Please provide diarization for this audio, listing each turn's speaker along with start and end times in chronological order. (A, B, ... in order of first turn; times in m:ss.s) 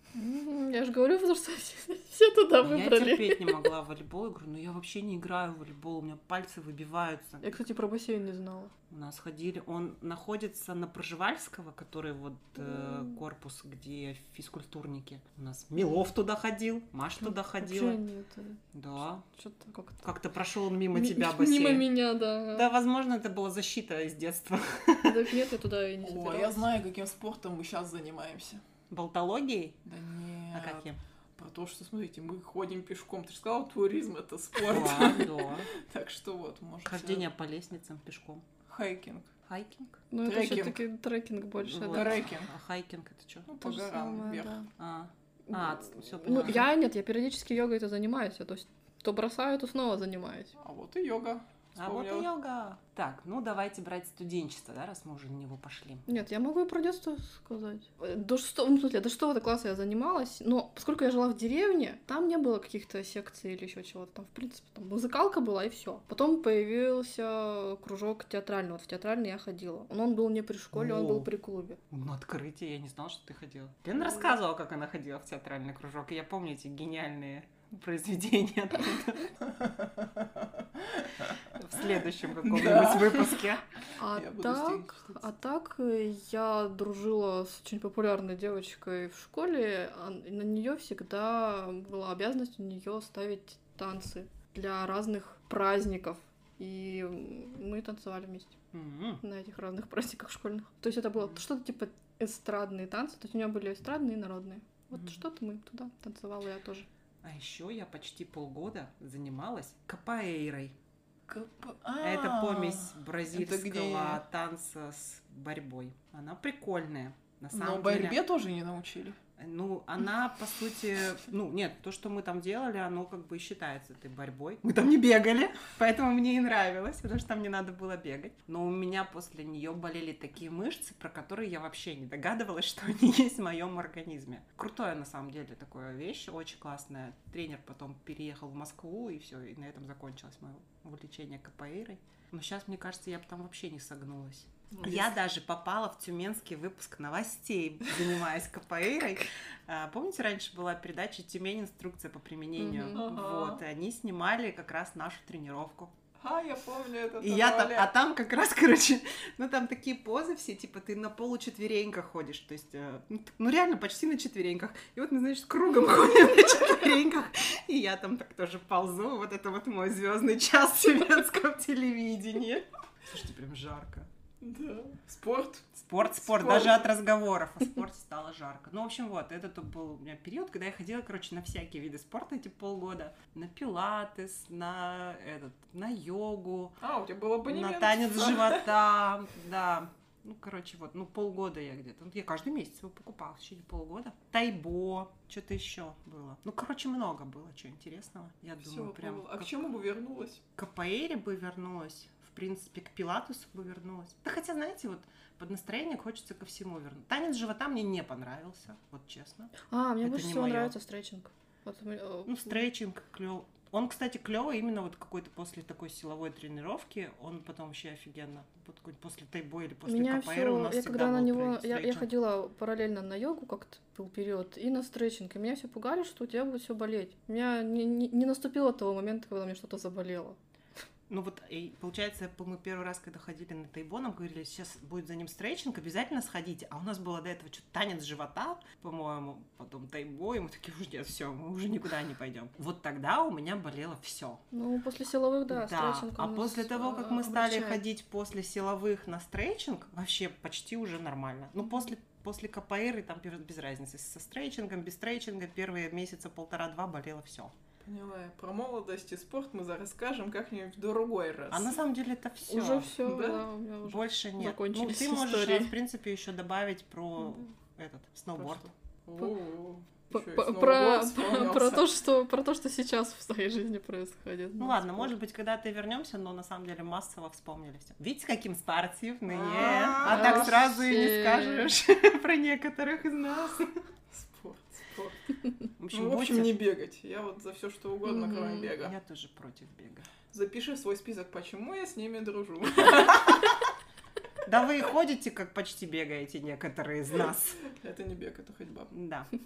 0:00.2-0:03.7 A
0:02.6-0:07.6 B
0:07.4-0:08.7 A
0:08.9-0:18.0 B
0:12.6-0:13.2 A
0:17.2-0:18.6 A
0:18.7-0:19.2 B
0:19.4-0:20.0 A
0:20.0-0:22.0 B
0:20.9-0:22.7 A
0:22.5-0:25.3 B
0:25.0-0:26.6 A
0:26.0-0:28.6 C
0:28.9-0:29.8 B
0:29.8-0:37.3 C
0:30.5-0:31.0 B
0:34.6-0:35.7 B
0:36.9-0:38.4 B
0:38.7-0:39.3 C
0:39.5-0:40.0 B
0:40.1-0:42.2 A
0:40.2-0:40.8 C
0:41.6-0:43.5 B
0:41.9-0:42.5 C
0:43.5-0:44.6 C
0:43.6-0:44.7 A
0:44.8-0:46.6 B
0:45.5-0:50.6 A
0:50.6-0:52.3 C
0:51.8-0:56.1 B
0:56.1-1:11.8 A
1:10.7-1:11.3 B
1:11.9-1:19.3 B
1:19.6-1:21.0 C
1:21.5-1:23.6 B
1:22.4-1:23.4 C
1:24.0-1:38.6 A
1:24.0-1:25.3 C
1:38.7-1:39.2 B
1:39.2-1:46.9 A
1:44.9-1:45.2 B
1:47.2-1:50.8 B
1:51.3-1:54.2 C
1:52.0-1:58.2 B
1:57.5-1:59.2 C
1:59.4-2:35.9 B
2:24.7-2:25.1 C
2:32.6-2:33.0 A
2:32.9-2:33.6 C
2:36.2-2:37.9 C
2:37.2-2:54.1 B
2:54.4-2:56.9 C
2:55.8-3:06.8 B
3:06.8-3:08.7 C
3:07.5-3:19.6 B
3:18.6-3:20.4 C
3:20.6-3:30.7 B
3:29.7-3:32.7 A
3:32.3-3:42.1 B
3:39.9-3:50.4 A
3:51.1-4:04.4 B
4:04.5-4:07.8 A
4:05.5-4:17.5 B
4:17.8-4:21.8 C
4:21.5-4:23.0 B
4:22.5-4:25.8 A
4:23.0-4:23.5 C
4:23.8-4:28.7 B
4:28.4-4:31.9 C
4:30.1-4:35.1 A
4:34.6-4:43.7 B
4:39.3-4:40.5 C
4:39.6-4:41.7 A
4:44.1-4:45.2 C
4:45.8-4:46.6 B
4:45.9-4:49.0 C
4:48.1-4:48.7 A
4:48.7-4:50.1 B
4:50.3-4:53.6 C
4:54.4-4:57.6 B
4:57.6-4:58.9 C
4:58.9-4:59.3 B